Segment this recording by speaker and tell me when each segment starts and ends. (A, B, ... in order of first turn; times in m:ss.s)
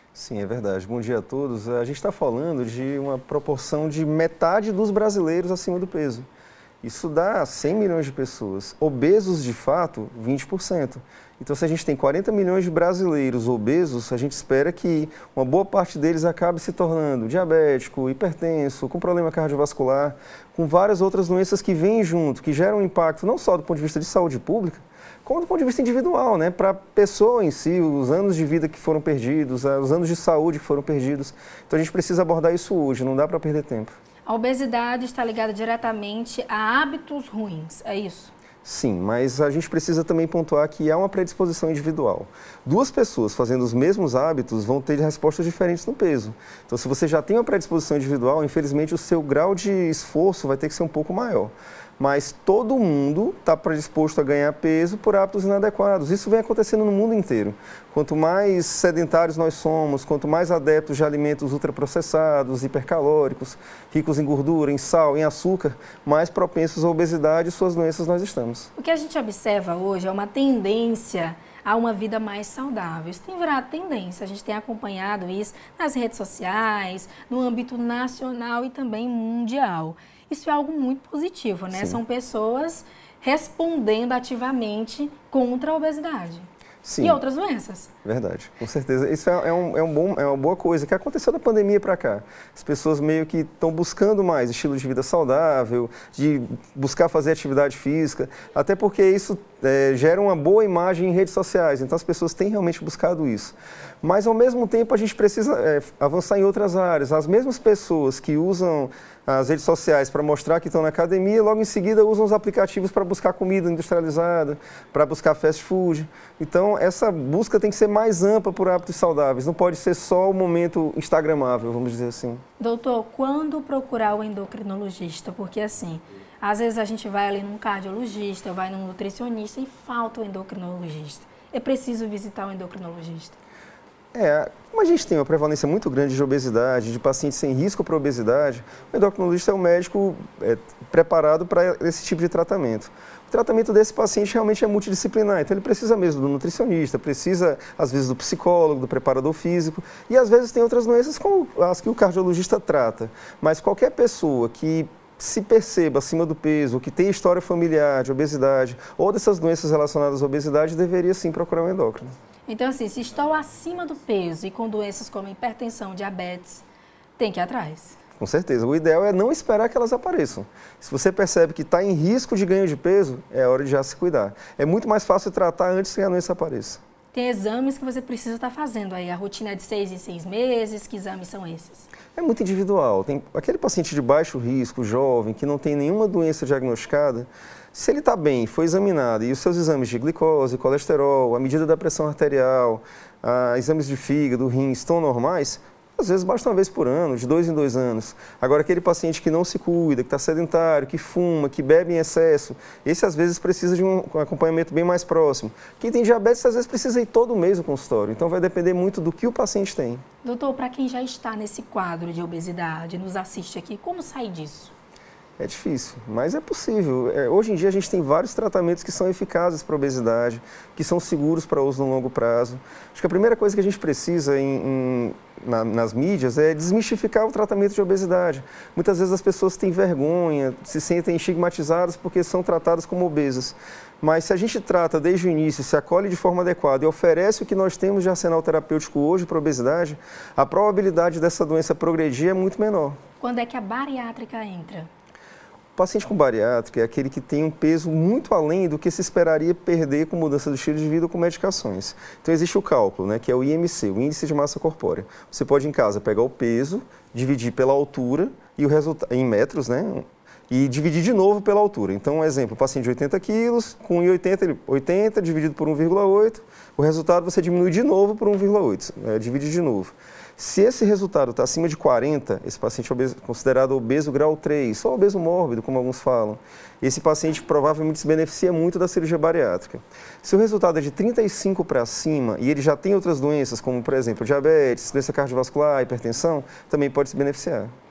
0:00.1-0:06.2 A
0:06.8-0:34.0 A
0:34.3-0:38.3 B
0:38.6-1:08.7 A
1:08.8-1:26.4 B
1:21.7-1:22.0 A
1:26.8-1:27.2 A
1:27.0-1:27.9 B
1:28.0-2:02.4 A
2:02.6-2:13.4 B
2:14.1-2:42.1 A
2:42.5-2:46.6 B
2:47.2-2:48.0 B
2:48.2-2:56.8 A
2:57.1-3:01.9 B
3:02.2-3:30.0 A
3:30.2-3:34.7 B
3:35.4-4:03.0 A
4:03.2-4:04.9 B
4:05.8-4:47.7 A